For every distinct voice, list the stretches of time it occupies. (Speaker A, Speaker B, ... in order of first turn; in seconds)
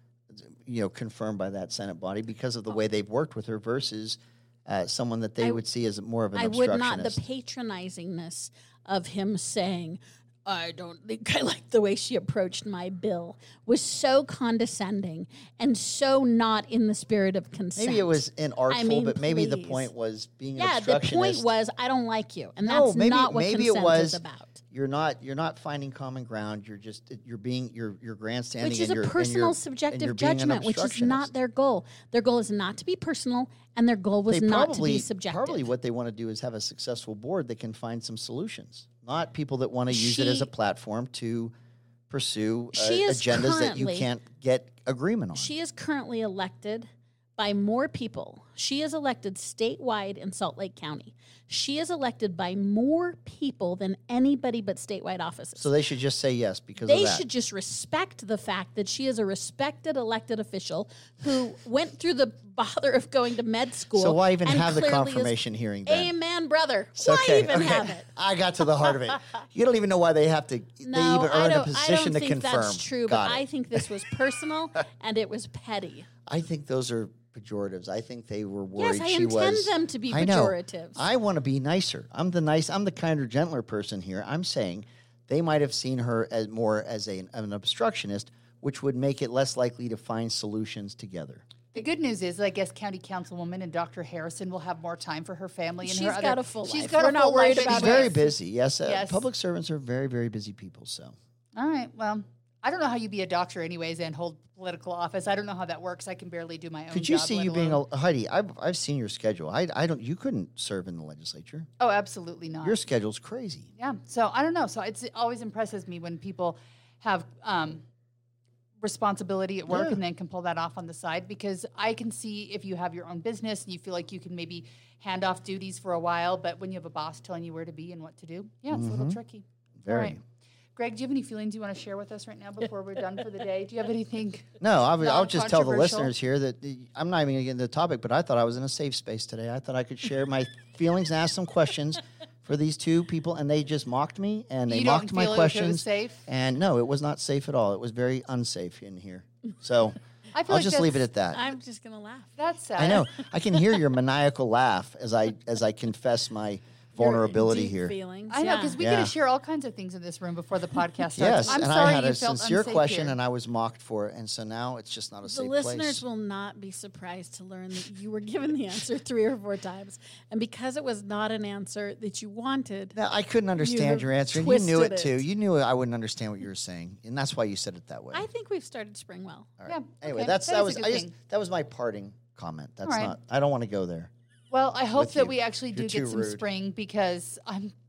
Speaker A: 0.3-7.2, 17.8-21.5, 22.6-31.3, 34.3-41.5, 42.1-45.5, 55.6-57.2, 64.0-66.1, 67.0-74.0, 76.3-91.5, 97.6-101.2, 106.9-111.7, 112.6-113.7, 119.7-120.0, 128.7-129.2, 129.8-130.2, 134.6-151.4, 152.8-157.9, 158.8-159.1, 161.2-166.0, 172.9-178.2, 179.6-184.1, 184.9-186.4
Speaker B: 6.3-19.9, 20.6-24.6, 28.6-35.7, 39.9-40.5, 42.7-44.1, 45.4-55.7, 56.8-68.1, 70.8-76.1, 78.8-81.1, 95.8-98.2, 151.3-152.3, 157.0-158.8, 161.3-161.6, 165.2-173.0, 173.6-175.2, 178.1-179.5
Speaker C: 91.7-98.2, 98.8-99.2, 101.6-107.8, 111.8-112.8, 113.8-117.8, 118.8-130.2, 130.8-136.1, 144.7-146.2, 150.3-151.0, 152.4-153.1, 158.3-163.2, 179.7-181.1, 182.8-183.2, 184.5-187.7